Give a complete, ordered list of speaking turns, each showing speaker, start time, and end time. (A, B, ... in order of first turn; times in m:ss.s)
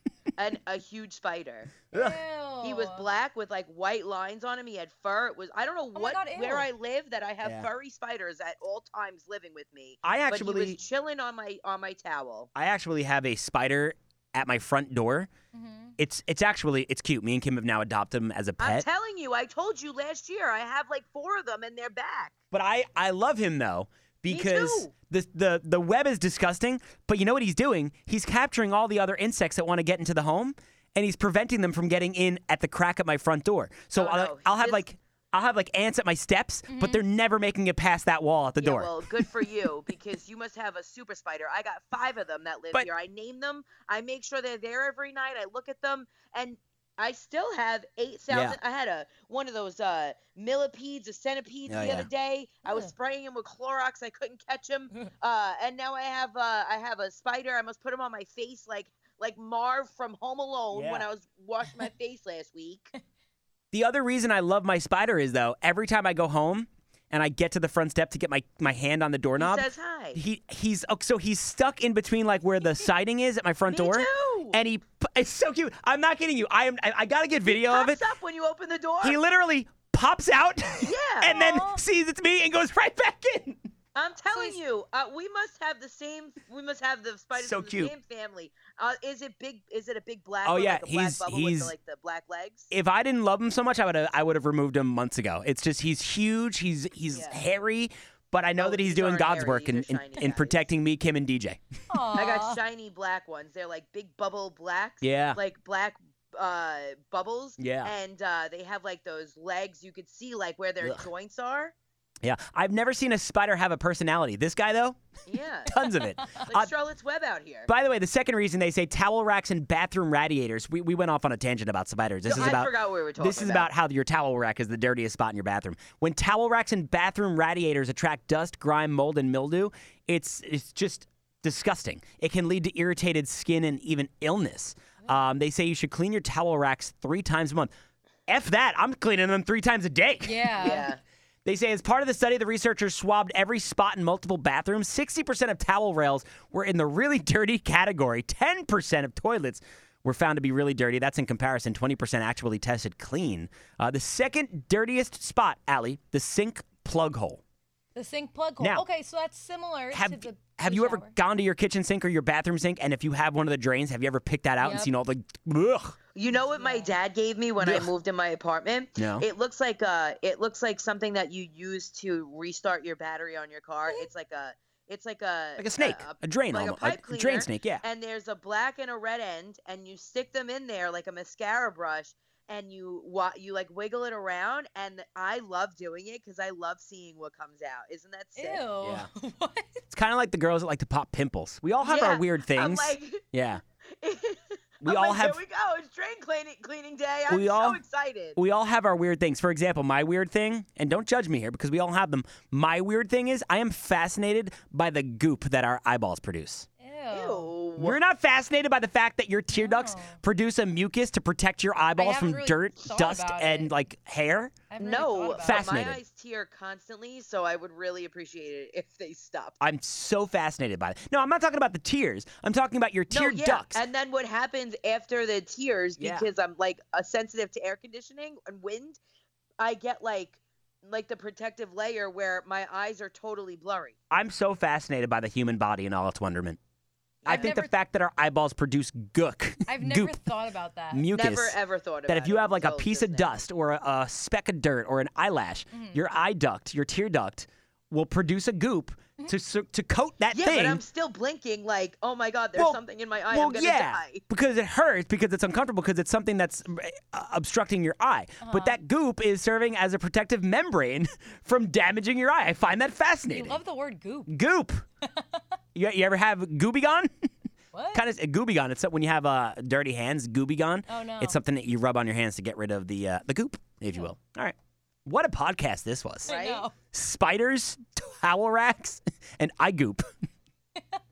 0:00.4-0:01.8 A
0:01.9-0:02.2 B
0:01.9-0:03.1 C
0:02.6-0:12.5 A
0:05.9-0:06.7 C
0:07.4-0:07.7 B
0:10.0-0:10.8 B
0:12.5-0:15.3 B
0:15.5-0:16.0 C
0:16.0-0:18.8 B
0:18.6-0:22.3 A
0:22.5-0:39.0 B
0:24.3-0:24.9 A
0:33.9-0:34.8 A
0:36.7-0:37.0 C
0:38.6-1:02.9 A
0:48.3-0:48.6 B
0:51.7-0:52.1 B
1:00.7-1:01.1 B
1:03.7-1:18.0 B
1:09.4-1:10.2 A
1:13.7-1:14.6 A
1:17.4-1:19.2 A
1:19.0-1:23.6 B
1:20.8-1:21.4 A
1:21.3-1:21.8 C
1:23.9-1:32.7 A
1:24.3-1:24.6 C
1:27.3-1:27.9 B
1:30.4-1:31.7 B
1:32.7-1:41.6 B
1:37.1-1:37.4 A
1:38.6-1:40.7 A
1:41.9-1:42.6 C
1:42.1-1:51.7 A
1:45.0-1:45.4 B
1:47.6-1:47.9 B
1:50.8-1:51.0 B
1:52.2-1:55.0 B
1:55.2-1:55.7 A
1:55.7-1:56.7 B
1:56.4-1:57.7 A
1:57.7-2:17.7 B
2:02.2-2:03.7 A
2:18.3-2:20.9 B
2:20.2-2:20.9 C
2:20.6-2:21.0 A
2:21.4-2:37.4 B
2:37.9-2:41.1 C
2:38.6-2:38.8 B
2:39.9-2:46.0 B
2:44.6-2:44.9 C
2:46.1-3:08.6 A
2:46.5-2:46.9 C
2:47.6-2:47.9 B
2:49.0-2:49.3 B
2:55.6-2:57.8 B
3:08.4-3:09.8 C
3:08.8-3:09.1 B
3:09.9-3:13.6 B
3:11.8-3:13.2 A
3:14.0-3:18.4 A
3:14.8-3:15.4 B
3:17.3-3:17.8 B
3:18.4-3:26.6 B
3:26.8-3:27.5 C
3:27.1-3:28.0 A
3:27.8-3:34.6 B
3:29.5-3:30.2 C
3:32.0-3:33.7 C
3:34.7-3:35.7 C
3:34.8-3:39.6 A
3:35.4-3:36.0 B
3:39.6-3:43.8 B
3:43.1-3:49.0 A
3:46.0-3:46.3 B
3:49.6-3:53.9 A
3:54.1-3:56.6 B
3:57.2-3:57.6 A
3:57.2-3:57.7 C
3:57.2-4:00.3 B
3:59.7-4:01.0 C
4:00.9-4:01.6 B
4:01.1-4:03.4 A
4:02.1-4:10.8 B
4:05.7-4:06.0 C
4:10.3-4:14.2 A
4:12.6-4:23.6 B
4:18.4-4:18.8 C
4:23.3-4:24.3 C
4:24.3-4:24.8 B
4:25.1-4:25.4 C
4:25.7-4:27.1 B
4:27.7-4:28.0 C
4:27.9-4:34.5 B
4:30.9-4:31.4 C
4:35.0-4:36.4 B
4:36.2-4:36.7 A
4:36.2-4:36.7 C
4:36.9-4:40.0 B